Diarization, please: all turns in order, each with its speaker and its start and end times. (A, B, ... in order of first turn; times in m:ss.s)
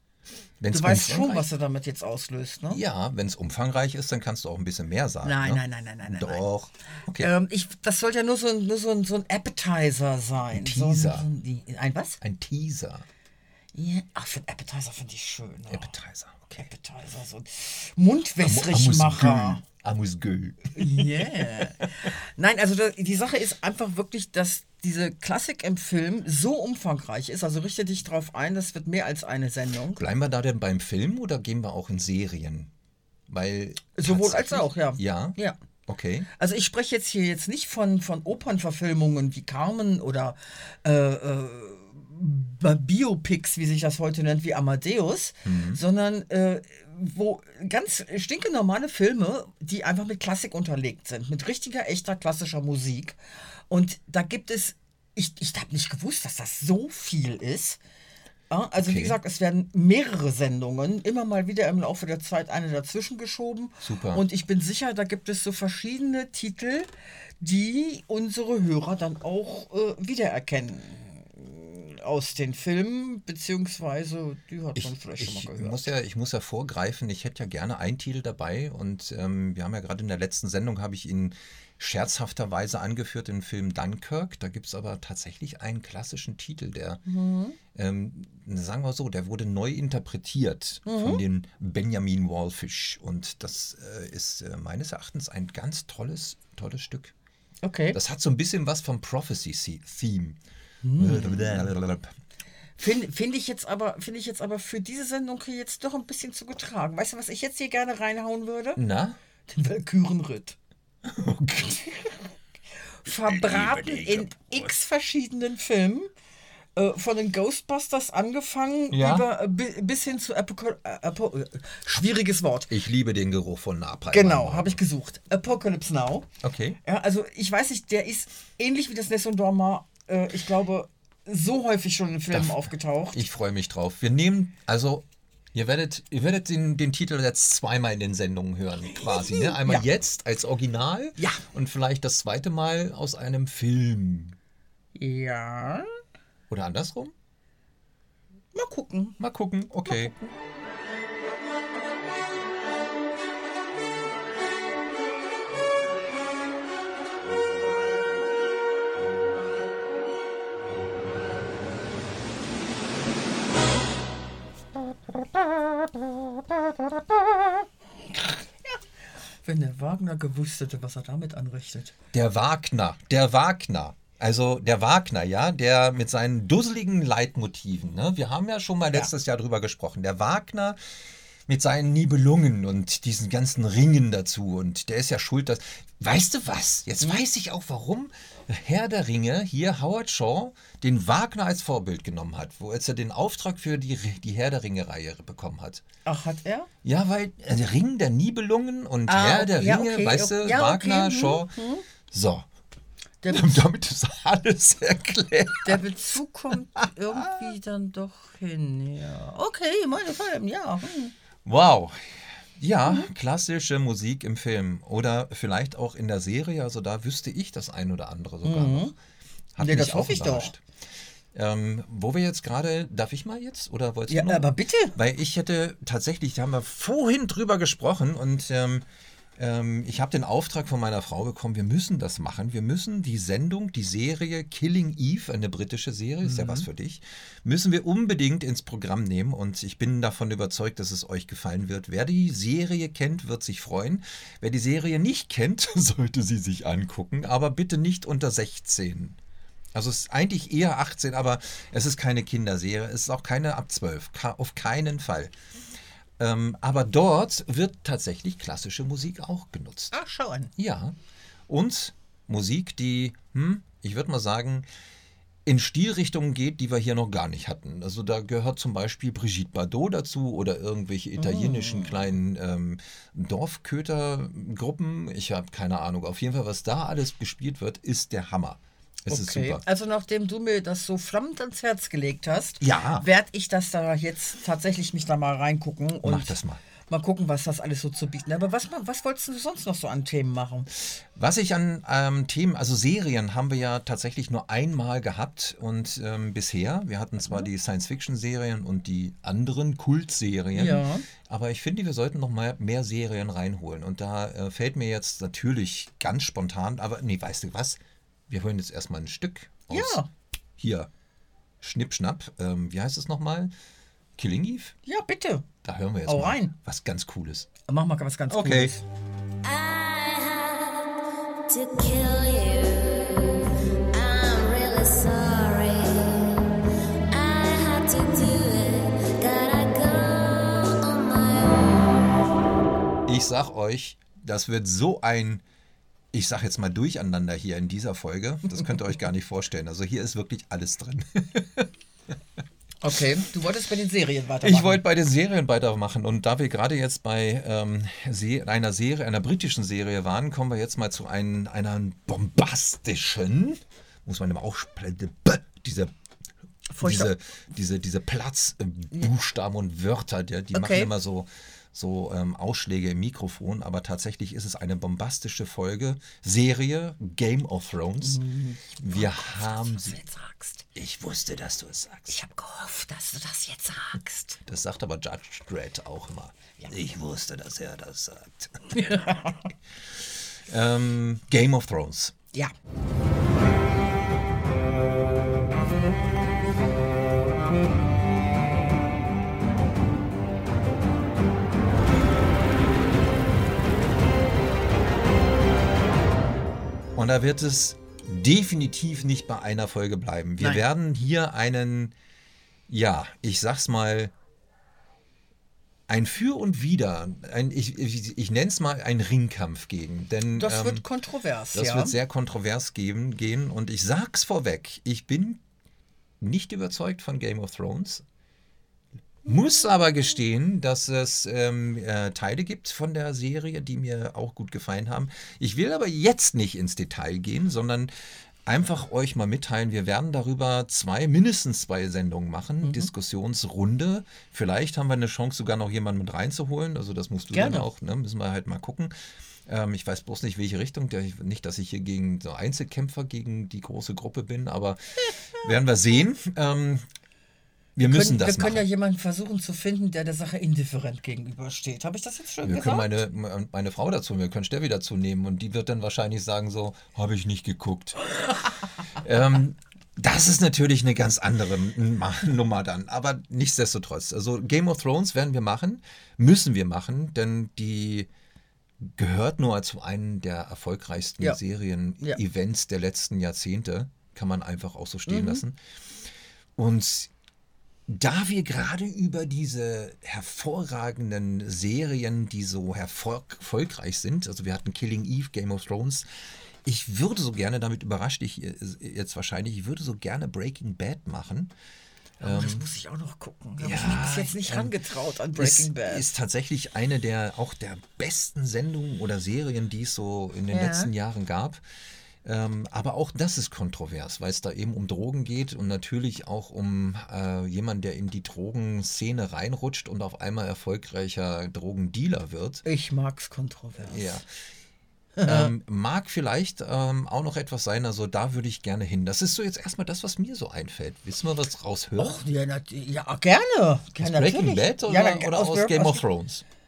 0:00.6-0:01.5 A
0:00.7-0:02.8 B
0:02.7-0:07.3 A
0:05.2-0:06.4 B
0:07.2-0:12.2 B
0:10.5-0:11.3 A
0:12.2-0:13.0 A
0:13.7-0:15.9 B
0:15.7-0:16.6 A
0:16.5-0:19.6 B
0:18.4-0:21.9 A
0:20.7-0:30.0 B
0:29.9-0:32.7 A
0:33.3-0:36.3 A
0:33.9-0:35.6 B
0:36.3-0:53.2 B
0:45.4-0:45.8 A
0:53.7-0:57.8 B
0:58.5-1:06.9 B
0:58.8-0:59.2 A
1:03.8-1:04.2 A
1:07.4-1:15.9 B
1:14.7-1:27.0 A
1:27.0-1:27.6 B
1:27.7-1:37.1 A
1:30.8-1:31.2 B
1:37.6-1:38.0 B
1:37.9-1:40.4 A
1:40.8-1:41.7 B
1:41.0-1:42.1 A
1:42.8-1:48.8 B
1:48.8-1:49.2 A
1:49.5-1:50.6 B
1:51.0-1:52.0 A
1:53.0-1:56.1 B
1:53.1-1:54.7 A
1:56.8-2:02.7 B
1:58.9-1:59.3 A
2:02.7-2:04.8 A
2:04.1-2:06.3 B
2:06.4-2:06.8 A
2:06.8-2:13.2 B
2:12.3-2:24.4 A
2:19.0-2:19.9 B
2:24.9-2:25.9 B
2:26.5-2:27.1 A
2:28.5-2:29.2 B
2:29.2-2:30.1 A
2:29.8-2:30.3 B
2:48.2-2:48.8 B
2:49.4-2:51.9 B
2:52.1-3:00.8 A
3:01.5-3:15.8 A
3:16.0-3:16.7 B
3:16.8-3:22.5 A
3:19.1-3:21.9 B
3:23.2-3:23.6 B
3:23.3-3:25.8 A
3:25.6-3:31.1 B
3:26.8-3:27.5 A
3:31.4-3:39.0 A
3:38.4-3:38.9 B
3:39.5-3:40.6 A
3:39.6-3:40.5 B
3:41.3-3:48.8 A
3:44.1-3:45.0 B
3:49.4-4:09.2 A
3:56.2-3:56.7 B
4:09.7-4:15.3 A
4:16.2-4:20.0 A
4:19.9-4:20.5 B
4:20.6-4:21.0 A
4:21.5-4:24.7 A
4:25.4-4:39.6 A
4:31.2-4:32.1 B
4:39.1-4:46.4 B
4:42.6-4:43.0 A
4:46.0-4:46.6 A
4:46.9-4:50.7 B
4:50.9-5:10.0 A
5:00.5-5:01.1 B
5:09.7-5:10.1 B
5:10.6-5:10.9 A
5:11.6-5:13.5 A
5:14.2-5:14.7 A
5:14.8-5:15.4 B
5:15.6-5:17.5 A
5:16.0-5:16.5 B
5:17.7-5:18.8 B
5:18.3-5:18.7 A
5:19.4-5:26.4 C
5:27.1-5:32.0 C
5:33.1-5:35.4 A
5:36.1-5:41.7 A
5:42.8-5:44.8 B
5:44.4-5:55.9 A
5:56.7-5:57.1 B
5:56.8-6:08.2 A
6:00.5-6:00.9 B
6:08.0-6:10.6 B
6:08.8-6:10.0 A
6:10.7-6:12.2 A
6:12.1-6:14.4 B
6:14.4-6:19.0 A
6:18.7-6:19.4 B
6:19.9-6:22.1 A
6:37.0-6:41.9 A
6:40.4-6:40.6 B
6:42.7-6:44.1 A
6:45.9-6:50.8 A
6:50.3-6:52.0 B
6:51.5-6:55.4 A
6:56.2-6:58.0 A
6:59.2-7:07.9 A
7:08.4-7:18.9 A
7:12.6-7:12.9 B
7:17.3-7:17.7 B
7:19.4-7:26.8 A
7:27.8-7:28.6 A
7:27.8-7:33.0 B
7:32.4-7:48.1 A
7:48.8-7:55.6 A
7:55.1-7:55.4 B
7:56.6-7:57.1 A
7:57.9-8:06.0 A
8:06.6-8:11.5 A
8:12.2-8:12.7 A
8:12.2-8:16.0 B
8:13.6-8:14.7 A
8:15.3-8:21.6 A
8:20.5-8:20.9 B
8:22.2-8:32.6 A
8:32.6-8:34.2 B
8:33.8-8:34.2 A
8:35.2-8:35.5 B
8:35.2-8:42.2 A
8:42.0-8:46.0 B
8:44.0-8:46.4 A